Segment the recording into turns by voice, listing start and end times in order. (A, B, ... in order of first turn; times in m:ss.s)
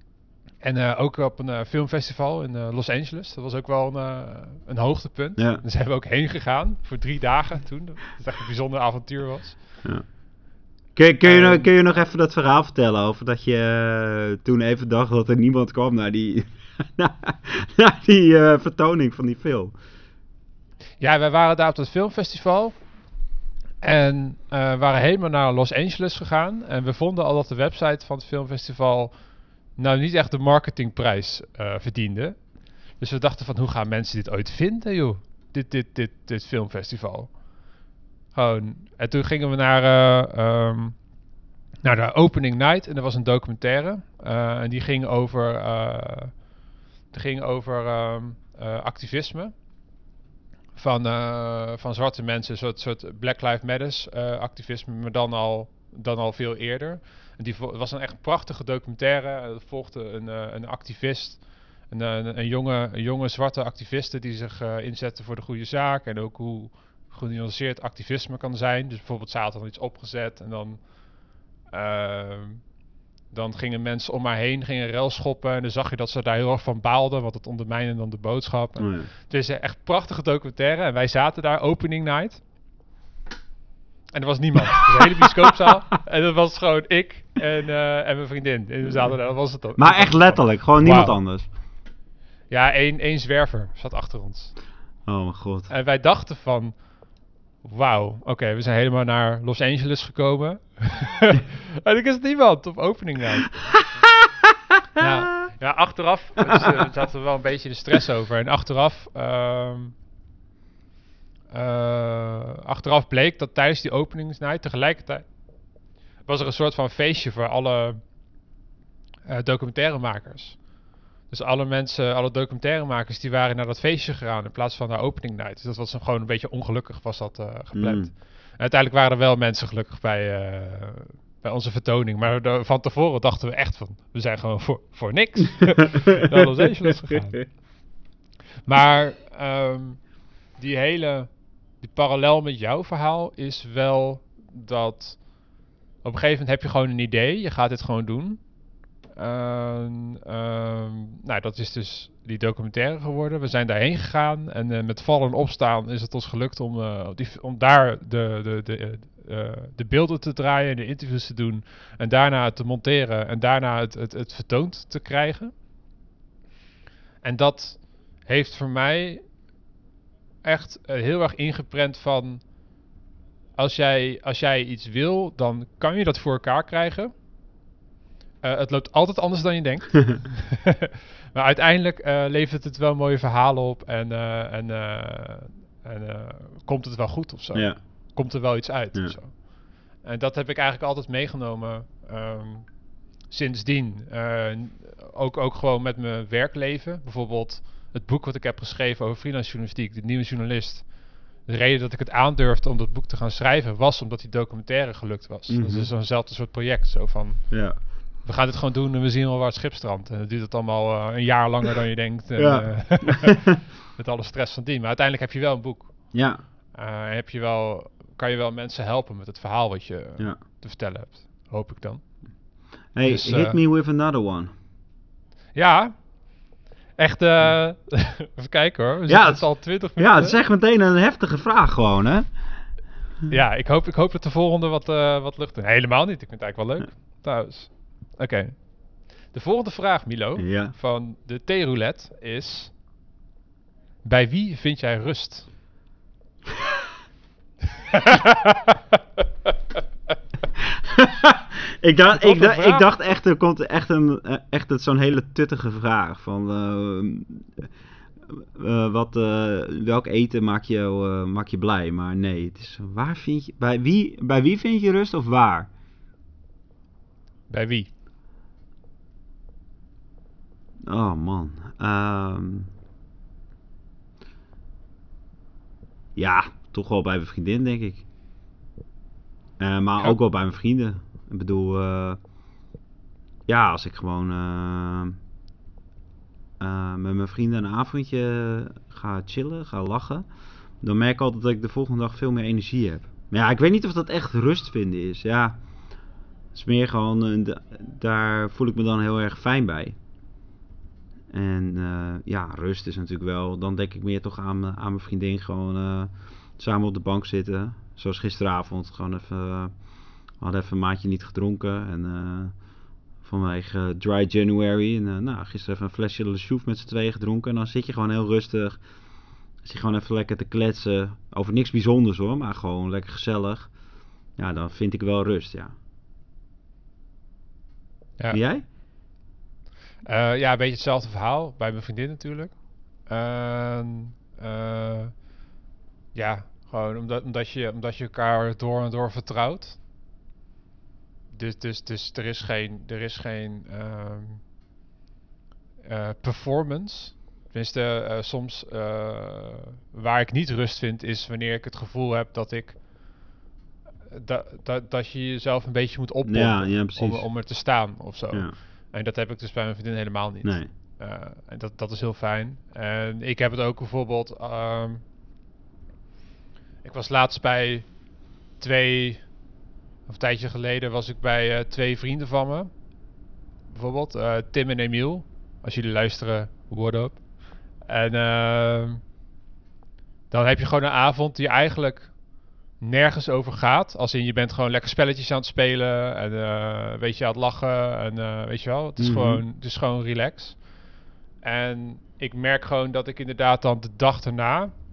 0:00.6-0:09.6 A
0:05.4-0:05.6 B
0:11.0-0:19.7 B
0:11.2-0:11.7 A
0:21.0-0:22.8 A
0:23.8-0:29.1 A
0:29.8-0:32.4 A
0:33.0-0:37.3 A
0:38.3-0:41.0 A
0:41.8-0:46.4 A
0:47.1-0:49.5 A
0:50.8-1:10.8 A
1:11.7-1:12.6 A
1:13.3-1:22.4 A
1:18.8-1:19.1 B
1:24.1-1:31.2 A
1:29.8-1:31.4 B
1:32.5-1:34.5 A
1:35.0-1:35.7 B
1:35.7-1:36.7 A
1:37.6-1:43.5 A
1:43.7-1:44.5 B
1:45.0-1:49.9 A
1:51.5-1:55.2 A
1:56.2-1:58.0 A
1:59.2-2:00.6 A
2:01.3-2:17.4 A
2:07.7-2:08.1 B
2:17.0-2:17.4 B
2:18.6-2:20.0 A
2:20.6-2:21.3 A
2:21.8-2:25.2 A
2:26.0-2:28.4 A
2:29.2-2:45.5 A
2:47.2-2:49.2 A
2:50.4-2:52.4 A
2:53.6-2:57.1 A
2:58.4-3:09.4 A
3:10.0-3:12.7 A
3:13.3-3:20.8 A
3:21.4-3:27.4 A
3:25.5-3:25.9 B
3:27.5-3:27.8 B
3:28.2-3:35.9 A
3:32.4-3:33.6 B
3:36.1-3:36.4 B
3:36.7-3:42.0 A
3:42.9-3:44.5 B
3:43.0-3:43.6 A
3:45.5-3:45.9 A
3:47.0-3:50.4 A
3:49.1-3:52.2 B
3:53.3-3:58.6 A
3:59.3-4:02.7 A
4:00.4-4:00.7 B
4:04.0-4:05.5 A
4:07.9-4:08.8 A
4:10.6-4:17.5 B
4:12.1-4:12.8 A
4:18.3-4:25.7 B
4:27.5-4:27.9 A
4:30.8-4:32.7 B
4:36.2-4:38.0 B
4:39.6-4:42.2 B
4:43.5-4:45.2 B
4:46.6-4:50.2 B
4:50.8-4:55.6 B
4:56.5-5:00.0 B
5:01.3-5:09.7 B
5:10.4-5:12.5 B
5:13.2-5:18.8 B
5:19.6-5:23.7 B
5:24.4-5:25.7 B
5:28.3-5:28.6 B
5:30.0-5:35.1 A
5:36.1-5:39.8 A
5:41.3-5:44.4 A
5:45.8-5:52.8 A
5:54.1-6:05.0 A
5:56.2-5:57.2 B
6:00.4-6:00.7 B
6:06.8-6:07.9 A
6:08.6-6:09.2 A
6:10.1-6:12.7 A
6:13.7-6:17.2 A
6:17.8-6:19.0 A
6:20.3-6:22.1 A
6:22.8-6:30.6 A
6:29.0-6:29.4 B
6:31.4-6:34.7 A